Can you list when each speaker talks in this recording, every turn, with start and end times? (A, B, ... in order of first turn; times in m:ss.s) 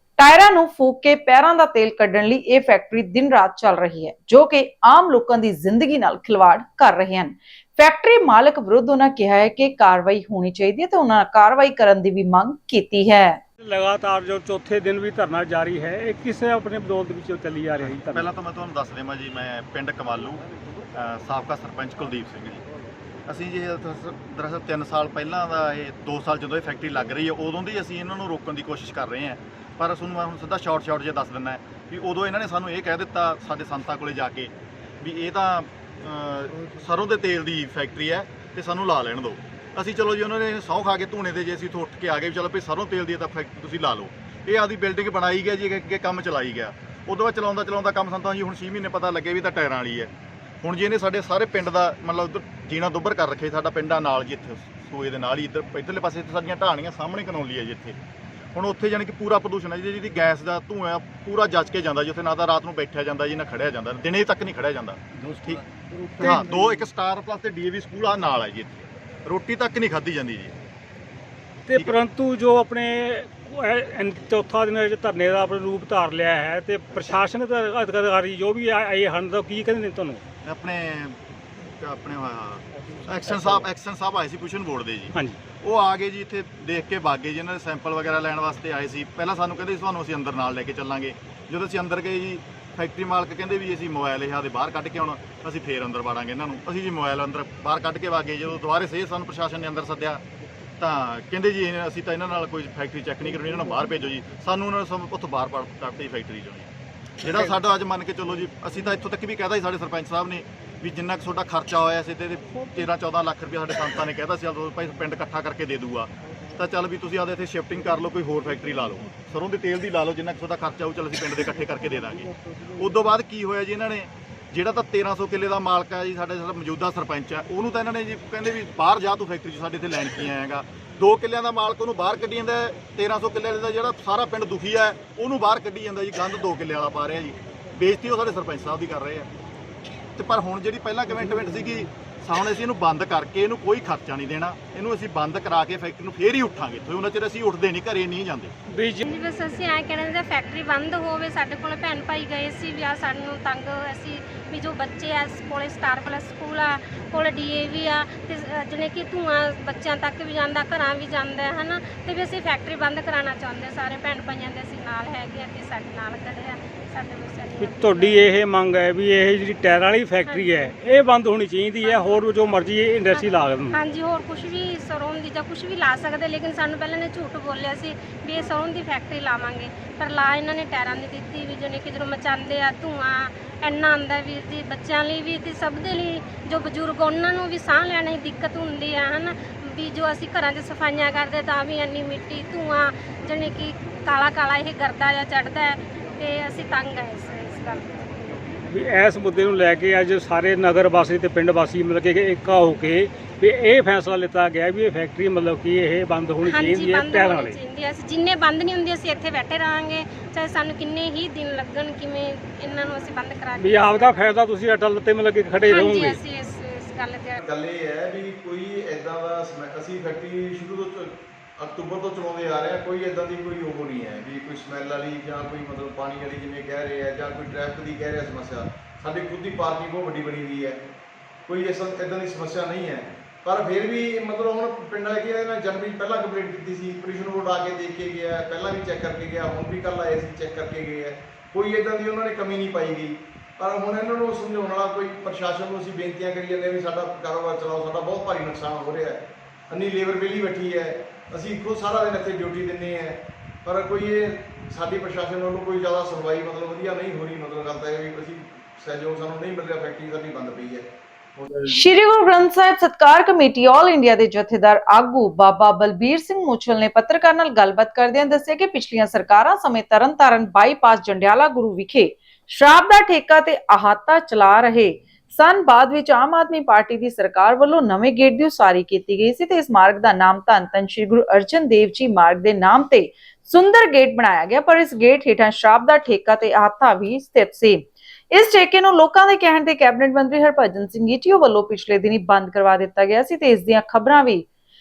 0:00.2-0:13.4 A
0:13.6-0:18.4 B
0:17.8-0:22.6 C
0:23.3-0:50.1 C
0:50.6-0:58.0 C
0:58.5-1:05.6 C
1:06.2-1:06.6 B
1:06.3-1:10.6 C
1:11.7-1:20.2 B
1:20.4-1:21.2 C
1:21.8-1:40.2 C
1:23.2-1:23.5 B
1:25.1-1:25.4 B
1:40.8-1:46.7 C
1:47.2-2:19.3 C
2:20.2-2:28.5 C
2:28.7-2:29.1 B
2:29.1-2:47.6 D
2:47.6-2:53.8 B
2:53.8-3:18.1 D
3:18.7-3:27.7 B
3:26.9-3:33.6 D
3:33.6-3:36.3 B
3:36.3-3:37.4 D
3:37.4-3:50.9 E
3:51.5-4:21.6 E
4:21.7-4:54.4 A